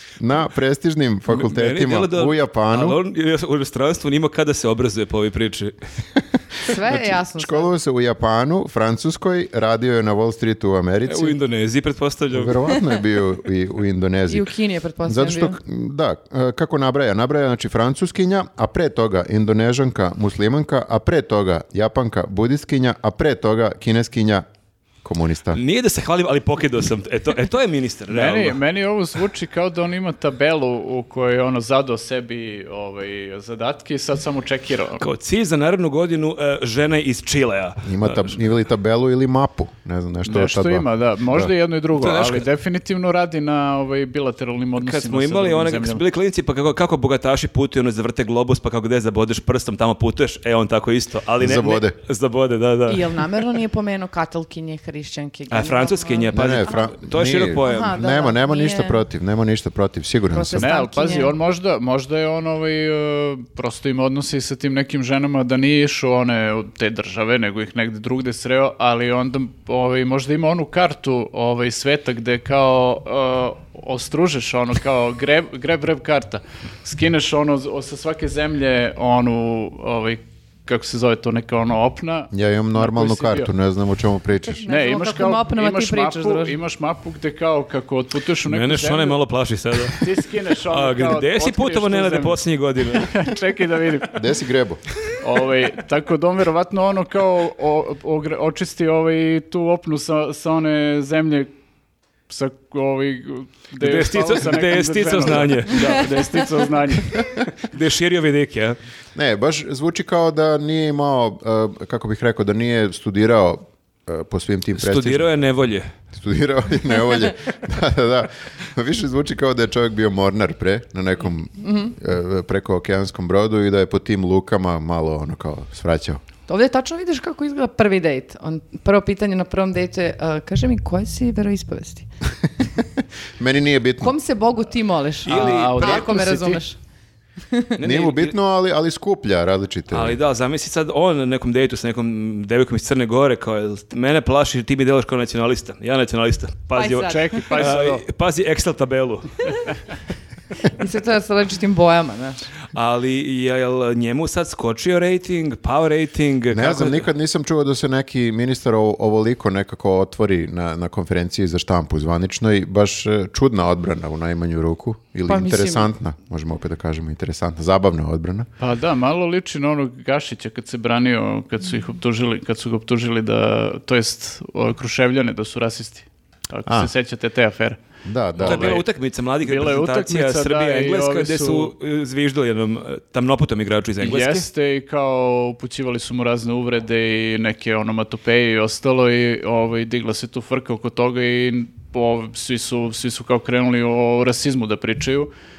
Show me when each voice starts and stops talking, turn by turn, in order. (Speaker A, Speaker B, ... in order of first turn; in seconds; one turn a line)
Speaker A: 0.2-3.0
Speaker B: 1.3-5.8
Speaker C: 6.6-7.7
Speaker A: 6.9-11.4
Speaker B: 11.1-12.7
Speaker A: 12.3-14.5
Speaker C: 14.3-15.6
Speaker A: 15.1-24.4
Speaker A: 25.0-25.6
Speaker B: 25.5-28.6
Speaker D: 28.1-35.0
Speaker B: 35.0-38.4
Speaker A: 37.8-41.5
Speaker D: 40.2-46.0
Speaker B: 41.9-42.5
Speaker B: 44.8-53.2
Speaker A: 51.4-52.0
Speaker C: 52.9-56.9
Speaker B: 55.5-58.0
Speaker A: 56.3-60.7
Speaker C: 57.6-59.0
Speaker C: 60.3-61.3
Speaker D: 60.6-83.5
Speaker A: 82.3-84.7
Speaker C: 84.5-86.6
Speaker D: 84.7-89.2
Speaker B: 88.5-93.3
Speaker D: 89.9-94.2
Speaker A: 94.1-94.8
Speaker D: 95.2-101.5
Speaker D: 102.3-107.2
Speaker B: 103.8-106.2
Speaker B: 107.0-108.8
Speaker A: 109.1-115.3
Speaker B: 114.8-115.9
Speaker A: 116.1-126.2
Speaker C: 121.6-121.9
Speaker C: 126.5-132.1
Speaker A: 133.4-134.1
Speaker C: 134.0-136.8
Speaker B: 135.2-136.4
Speaker D: 135.3-136.6
Speaker B: 137.8-138.3
Speaker A: 137.8-140.2
Speaker B: 139.9-149.5
Speaker C: 146.7-147.7
Speaker D: 147.0-148.0
Speaker C: 150.6-152.5
Speaker B: 152.7-157.1
Speaker A: 156.5-168.5
Speaker C: 165.3-165.9
Speaker D: 168.6-177.8
Speaker A: 176.7-176.9
Speaker A: 178.1-178.8
Speaker D: 178.4-178.8
Speaker B: 178.4-184.4
Speaker D: 179.4-181.7
Speaker D: 184.0-195.3